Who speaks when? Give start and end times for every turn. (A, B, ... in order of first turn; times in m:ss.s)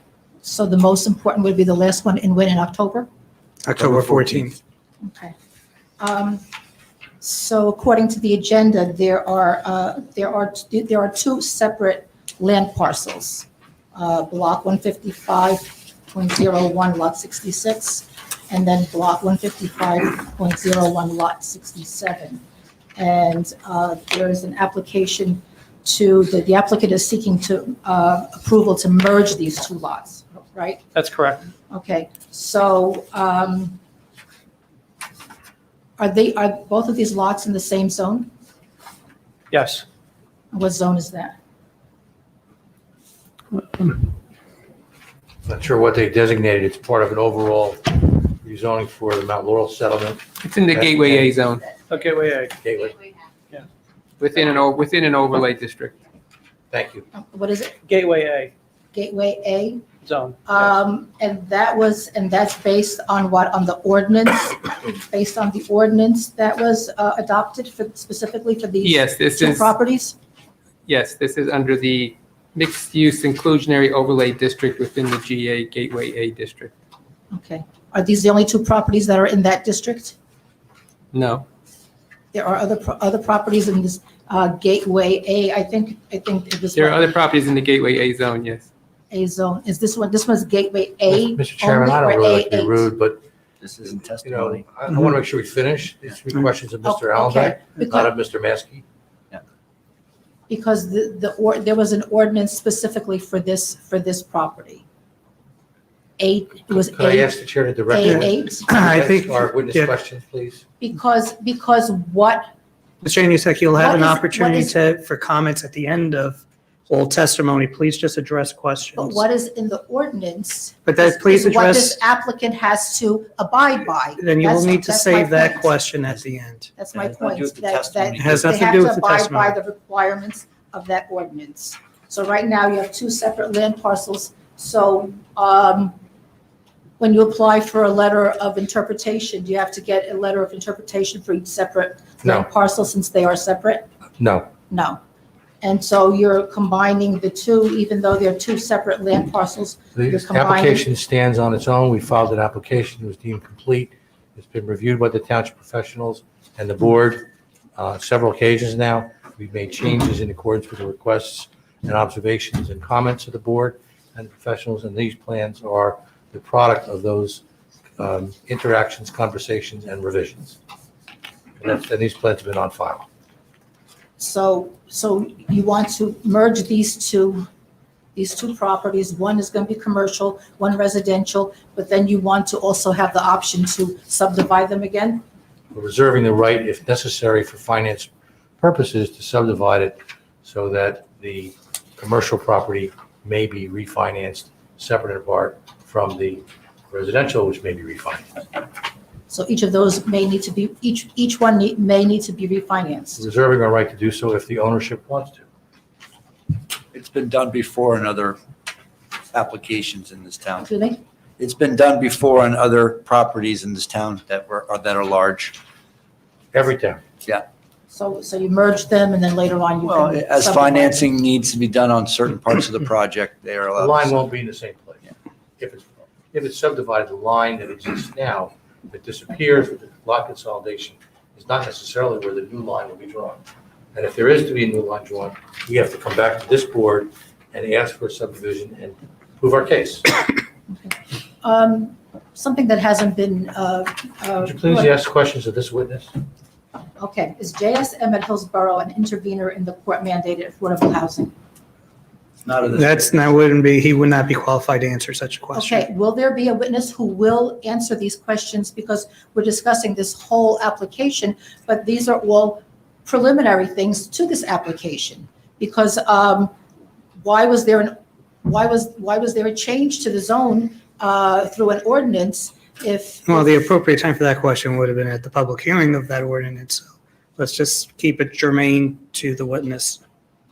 0:00.4-0:03.1 A
0:03.6-0:04.5 B
0:03.8-0:04.4 C
0:05.0-0:05.3 A
0:06.0-0:06.4 A
0:07.2-0:22.4 A
0:23.0-0:30.8 A
0:30.9-0:31.4 D
0:31.7-0:33.8 A
0:36.0-0:38.3 A
0:39.5-0:39.8 D
0:40.5-0:41.4 A
0:45.4-0:51.3 E
0:50.4-0:51.7 F
0:51.9-0:52.5 D
0:52.6-0:53.0 E
0:54.2-0:56.0 F
0:56.7-0:57.1 E
0:57.1-0:57.7 A
0:57.8-0:58.5 D
0:58.9-0:59.8 A
1:00.0-1:00.7 D
1:00.4-1:10.1 A
1:08.8-1:09.7 F
1:10.9-1:16.7 F
1:17.3-1:20.1 A
1:21.1-1:21.4 F
1:22.3-1:27.1 A
1:26.7-1:28.6 F
1:29.1-1:32.9 A
1:31.1-1:33.2 E
1:33.6-1:34.7 C
1:34.2-1:38.8 E
1:36.8-1:38.1 A
1:40.5-1:44.8 A
1:46.2-1:47.3 A
1:46.7-1:50.6 E
1:47.9-1:48.7 A
1:48.0-1:49.9 B
1:50.8-1:52.5 A
1:53.0-1:59.2 B
1:53.7-1:54.7 A
1:59.0-2:05.7 A
2:00.8-2:02.0 B
2:04.2-2:06.7 B
2:06.8-2:15.9 A
2:06.9-2:08.6 C
2:08.2-2:09.5 B
2:17.0-2:23.9 A
2:22.2-2:22.5 E
2:24.2-2:24.5 E
2:24.7-2:25.0 A
2:25.6-2:30.8 A
2:29.9-2:47.4 E
2:48.0-2:50.6 E
2:51.6-2:53.0 E
2:54.2-2:57.5 A
2:58.1-3:05.2 A
3:05.7-3:08.1 E
3:08.6-3:18.3 E
3:19.3-3:23.2 A
3:23.2-3:25.4 E
3:26.9-3:28.4 C
3:29.3-3:30.7 C
3:30.6-3:31.0 A
3:31.4-3:35.6 C
3:36.5-3:37.0 E
3:37.9-3:41.1 A
3:39.8-3:44.1 C
3:43.8-3:53.4 E
3:53.9-4:00.1 E
4:00.7-4:04.9 A
4:04.4-4:06.1 E
4:07.0-4:11.3 A
4:12.4-4:13.1 C
4:12.7-4:15.8 B
4:15.5-4:26.5 A
4:27.2-4:33.6 A
4:33.2-4:40.0 B